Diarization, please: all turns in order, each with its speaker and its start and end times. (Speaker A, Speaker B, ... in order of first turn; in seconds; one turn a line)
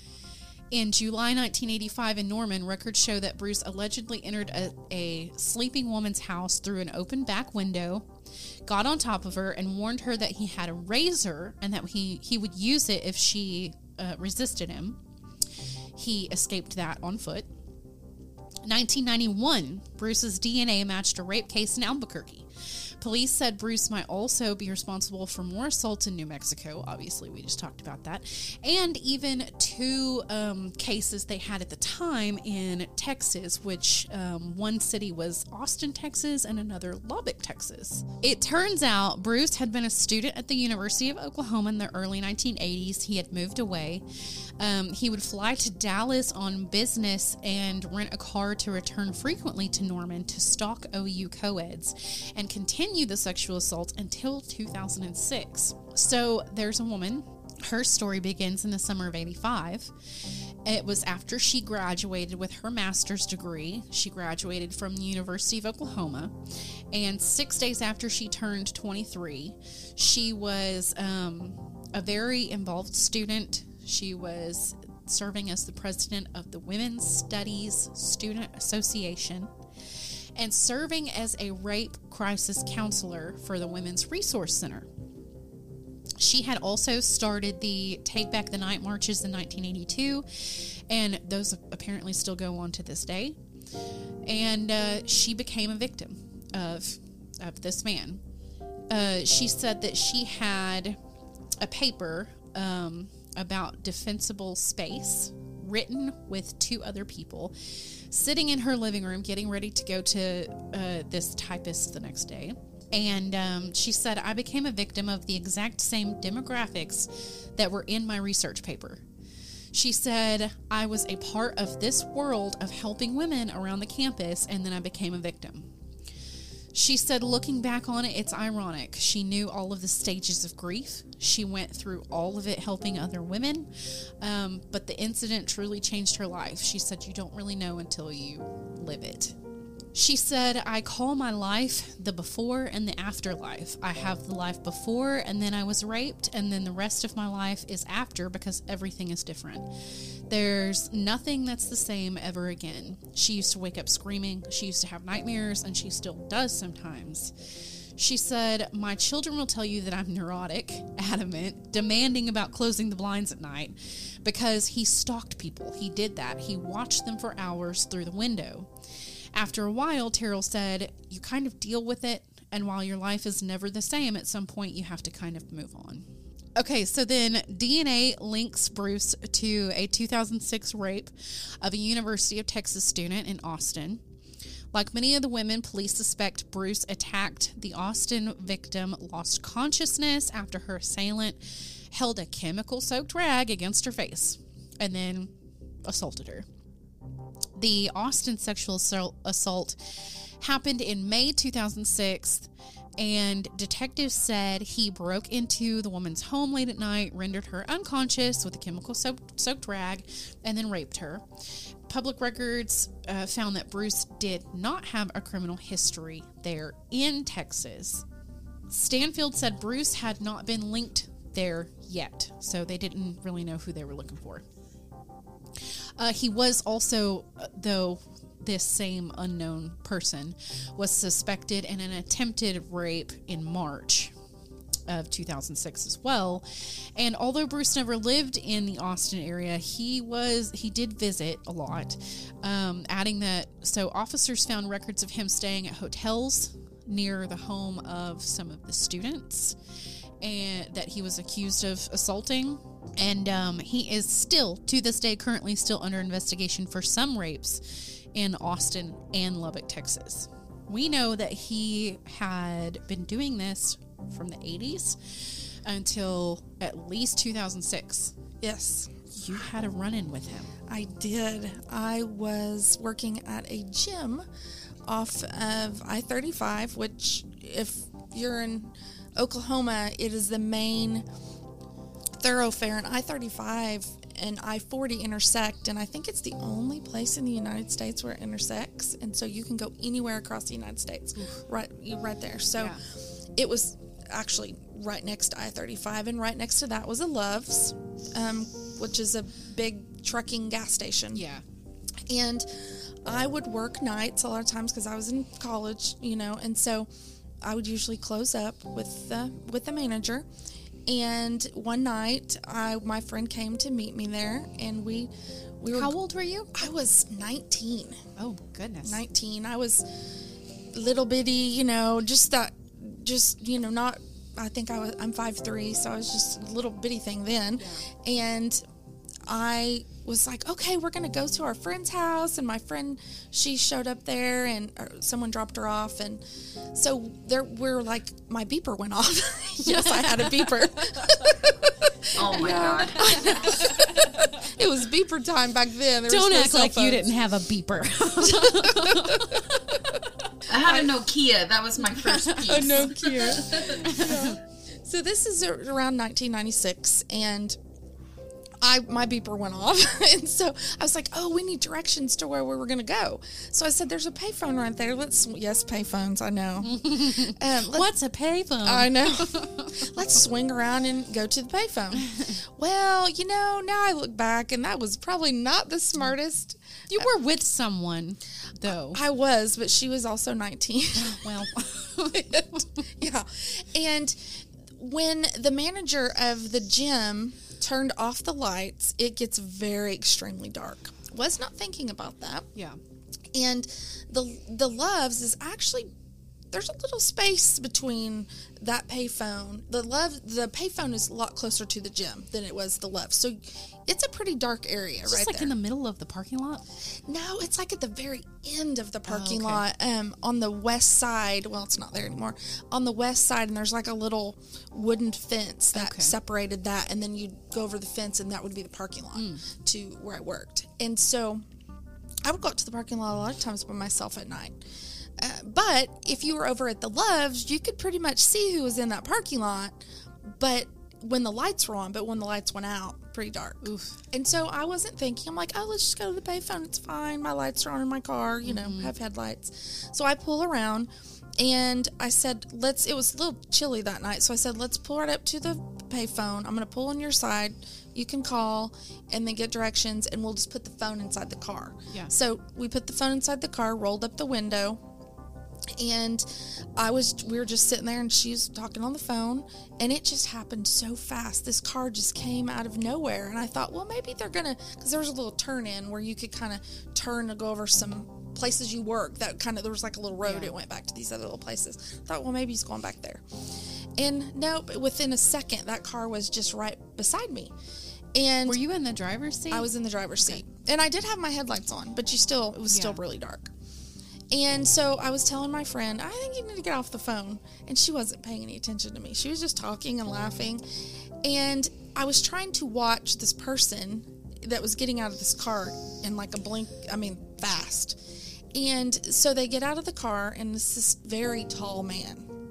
Speaker A: 0.7-8.1
Speaker A: 8.6-15.0
Speaker A: 15.9-17.5
Speaker A: 18.6-22.5
Speaker A: 23.0-44.0
Speaker A: 44.6-59.9
Speaker A: 60.6-66.3
Speaker A: 66.9-79.5
Speaker A: 80.4-84.9
Speaker A: 86.2-93.4
Speaker A: 94.2-98.2
Speaker A: 98.9-101.0
Speaker A: 101.6-119.0
Speaker A: 119.7-125.7
Speaker A: 126.7-139.3
Speaker A: 139.9-149.7
Speaker A: 150.3-157.3
Speaker A: 158.0-168.7
Speaker A: 169.3-184.0
Speaker A: 184.7-195.3
Speaker A: 195.8-196.5
Speaker A: 197.6-199.8
Speaker A: 200.4-211.2
Speaker A: 211.9-218.0
Speaker A: 218.7-224.4
Speaker A: 226.0-234.1
Speaker A: 234.9-249.6
Speaker A: 250.2-268.1
Speaker B: 268.4-268.9
Speaker A: 269.1-270.5
Speaker B: 270.7-274.2
Speaker B: 274.9-281.1
Speaker B: 282.2-292.8
Speaker A: 291.2-291.4
Speaker B: 293.4-301.2
Speaker A: 301.1-301.4
Speaker B: 302.1-306.9
Speaker B: 307.4-310.3
Speaker B: 310.9-316.0
Speaker A: 315.7-316.7
Speaker B: 316.5-318.0
Speaker A: 318.2-319.0
Speaker B: 318.8-319.8
Speaker B: 320.7-328.6
Speaker A: 327.6-327.9
Speaker B: 329.2-347.1
Speaker A: 339.6-341.3
Speaker C: 342.1-343.1
Speaker A: 342.6-344.4
Speaker A: 346.1-350.0
Speaker B: 348.2-349.6
Speaker C: 350.5-353.8
Speaker B: 350.6-350.9
Speaker A: 351.9-353.1
Speaker B: 352.5-357.6
Speaker A: 353.7-354.4
Speaker B: 358.6-367.9
Speaker A: 366.6-369.9
Speaker B: 368.6-377.1
Speaker A: 371.9-372.4
Speaker A: 376.9-379.0
Speaker B: 378.7-381.3
Speaker A: 381.0-382.8
Speaker B: 382.1-392.5
Speaker B: 393.3-395.9
Speaker B: 396.5-405.5
Speaker A: 405.1-406.6
Speaker B: 407.1-421.5
Speaker A: 409.0-409.6
Speaker A: 415.7-416.1
Speaker A: 419.1-419.4
Speaker B: 422.2-424.6
Speaker B: 425.2-454.8
Speaker A: 433.6-434.0
Speaker A: 438.4-438.9
Speaker B: 455.8-473.2
Speaker A: 470.2-470.5
Speaker B: 474.0-477.5
Speaker B: 478.1-478.6
Speaker A: 478.5-479.7
Speaker B: 479.5-483.5
Speaker A: 482.7-483.0
Speaker B: 484.3-490.6
Speaker B: 491.2-498.0
Speaker B: 498.5-502.3